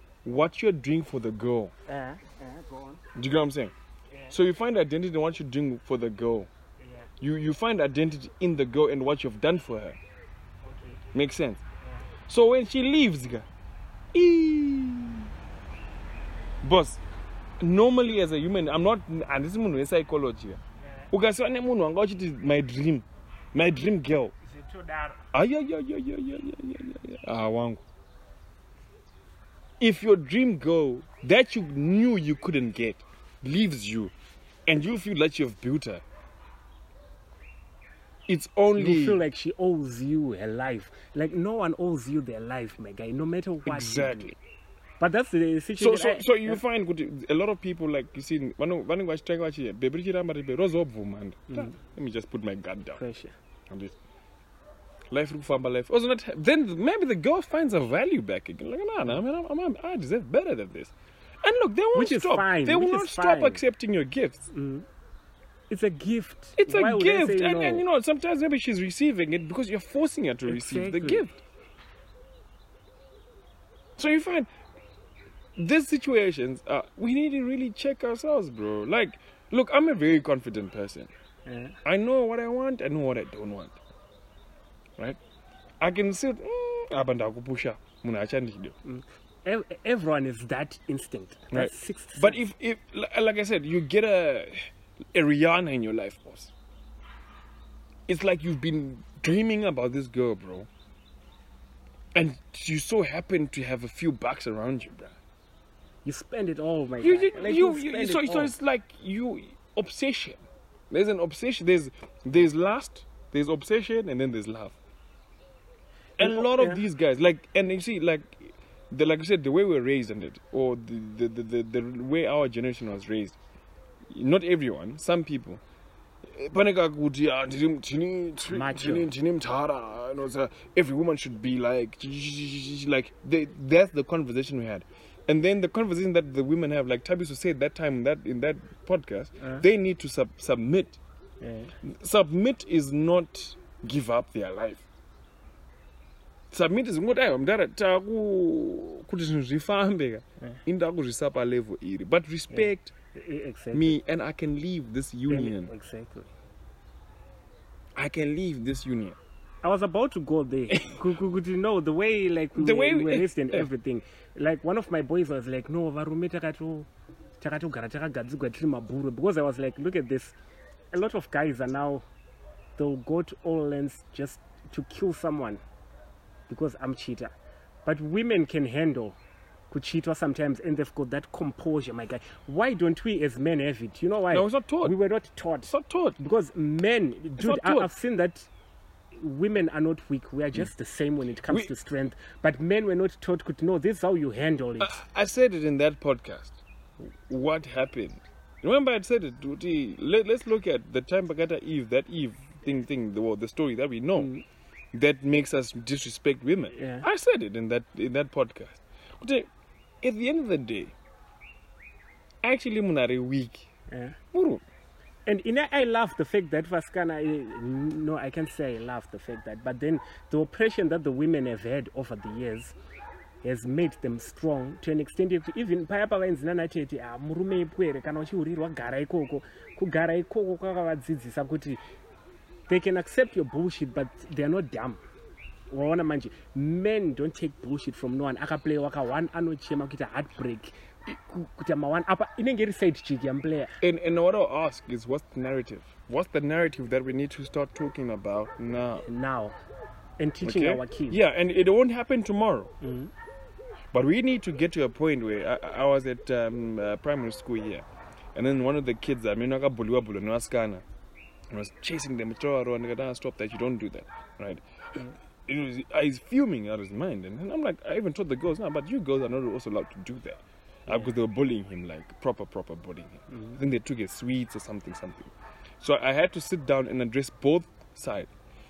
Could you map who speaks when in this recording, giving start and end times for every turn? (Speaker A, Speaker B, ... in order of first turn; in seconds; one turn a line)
Speaker A: 0.2-1.7
Speaker B: 1.9-3.0
Speaker A: 3.1-3.7
Speaker A: 4.3-6.5
Speaker B: 6.8-7.1
Speaker A: 7.2-10.0
Speaker B: 10.6-11.0
Speaker A: 11.1-11.6
Speaker B: 11.8-12.1
Speaker A: 12.3-13.5
Speaker A: 14.1-15.3
Speaker A: 16.6-17.0
Speaker A: 17.6-20.6
Speaker B: 20.8-21.1
Speaker A: 21.1-24.3
Speaker B: 24.4-25.2
Speaker A: 25.3-27.8
Speaker A: 29.8-34.1
Speaker A: 34.7-36.0
Speaker A: 38.3-39.2
Speaker B: 38.8-44.4
Speaker A: 43.7-44.4
Speaker B: 45.0-46.6
Speaker A: 45.8-53.0
Speaker B: 51.5-51.8
Speaker B: 53.0-53.4
Speaker A: 53.7-54.0
Speaker A: 55.1-64.5
Speaker B: 61.9-63.6
Speaker B: 64.5-64.9
Speaker B: 65.7-67.8
Speaker A: 66.6-71.4
Speaker B: 70.5-71.3
Speaker A: 74.0-74.5
Speaker A: 75.6-81.1
Speaker B: 81.5-81.8
Speaker A: 81.8-83.8
Speaker A: 85.8-88.8
Speaker B: 88.8-92.4
Speaker A: 91.5-96.5
Speaker A: 98.1-100.7
Speaker A: 102.2-105.2
Speaker B: 106.0-108.5
Speaker A: 107.0-114.8
Speaker A: 116.2-123.4
Speaker B: 116.2-116.8
Speaker A: 124.1-125.6
Speaker A: 126.2-141.0
Speaker B: 128.5-129.1
Speaker B: 139.4-139.7
Speaker B: 141.4-141.8
Speaker A: 141.8-144.9
Speaker A: 146.5-152.9
Speaker B: 152.5-154.0
Speaker A: 153.7-155.7
Speaker B: 155.3-156.3
Speaker A: 158.0-159.2
Speaker B: 159.6-170.3
Speaker A: 160.7-161.0
Speaker A: 162.6-163.7
Speaker B: 170.9-172.1
Speaker B: 172.8-175.6
Speaker B: 176.5-177.3
Speaker B: 177.8-179.2
Speaker B: 179.7-188.5
Speaker A: 184.3-184.9
Speaker A: 185.7-186.2
Speaker A: 187.4-187.9
Speaker B: 189.2-195.0
Speaker A: 194.8-204.3
Speaker B: 204.2-204.4
Speaker A: 204.9-209.5
Speaker B: 206.7-207.1
Speaker A: 210.0-210.9
Speaker A: 212.4-213.7
Speaker B: 213.9-214.2
Speaker A: 214.3-214.6
Speaker B: 215.3-222.8
Speaker B: 223.4-231.8
Speaker B: 232.7-235.0
Speaker B: 235.7-243.8
Speaker A: 243.8-249.1
Speaker B: 249.0-249.6
Speaker B: 250.2-251.2
Speaker A: 250.4-252.7
Speaker B: 252.8-253.1
Speaker A: 253.9-260.9
Speaker A: 261.5-278.3
Speaker B: 273.3-273.6